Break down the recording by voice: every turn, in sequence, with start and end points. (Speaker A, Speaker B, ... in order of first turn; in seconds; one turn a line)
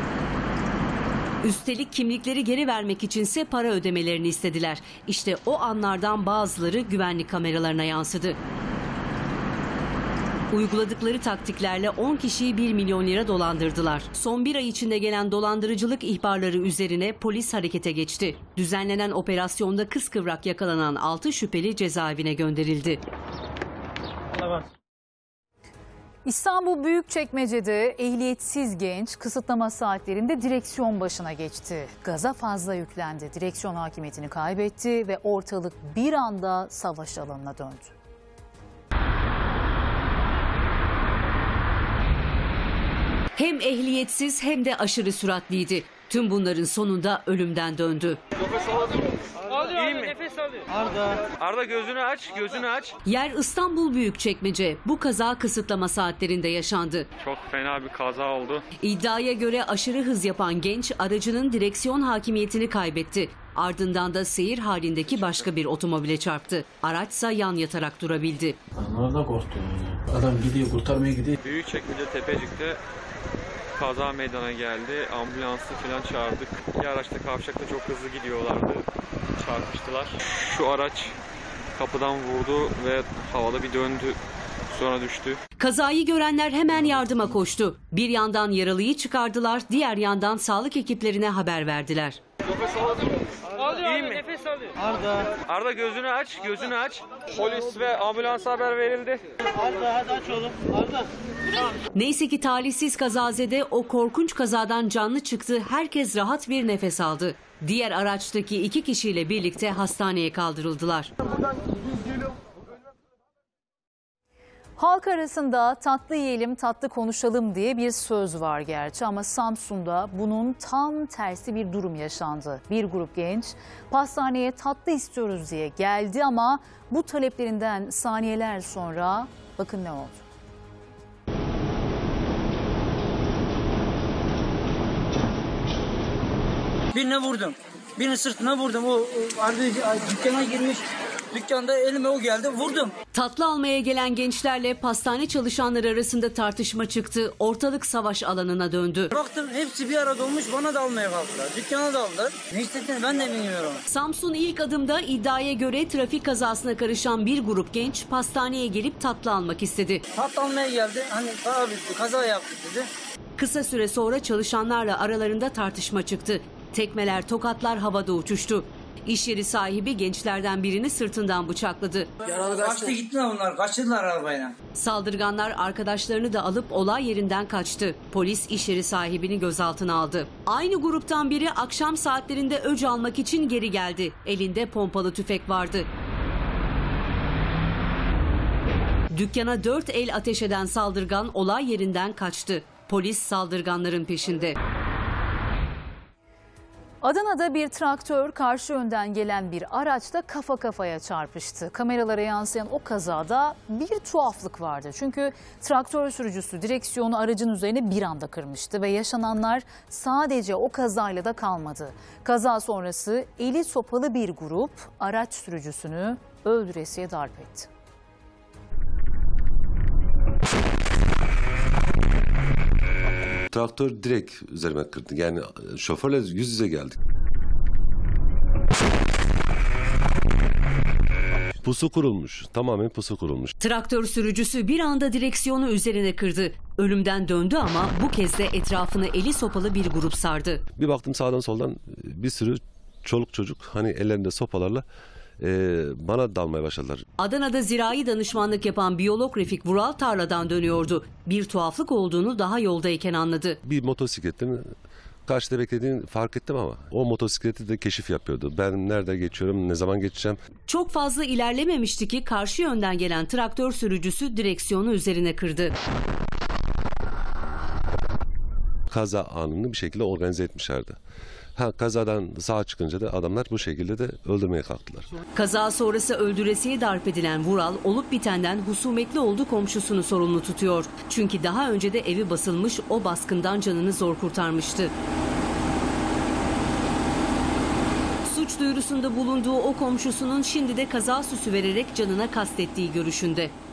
Speaker A: 1.4-8.4
Speaker A: 10.5-23.0
Speaker B: 26.2-37.9
Speaker A: 43.4-48.2
Speaker C: 49.6-50.2
Speaker C: 51.2-53.0
Speaker A: 53.0-57.1
Speaker C: 57.2-58.6
Speaker A: 58.8-68.6
Speaker D: 68.8-71.4
Speaker C: 71.4-72.8
Speaker C: 73.8-81.1
Speaker C: 81.8-84.2
Speaker C: 84.7-85.4
Speaker A: 85.6-92.2
Speaker C: 93.6-94.3
Speaker C: 95.3-99.2
Speaker A: 102.0-111.1
Speaker B: 114.8-130.2
Speaker E: 136.9-142.9
Speaker A: 143.1-149.1
Speaker E: 149.1-153.8
Speaker A: 153.9-160.0
Speaker E: 160.2-162.9
Speaker A: 163.4-172.1
Speaker E: 172.2-174.6
Speaker A: 174.8-185.9
Speaker A: 189.1-194.6
Speaker B: 197.0-217.7
Speaker F: 223.5-227.0
Speaker F: 231.6-233.5
Speaker A: 233.6-240.6
Speaker F: 240.8-244.8
Speaker F: 245.4-247.0
Speaker A: 247.2-253.6
Speaker F: 253.6-254.7
Speaker F: 255.3-260.4
Speaker A: 260.7-265.7
Speaker F: 268.9-271.0
Speaker F: 271.6-275.1
Speaker A: 275.4-284.9
Speaker A: 288.2-293.5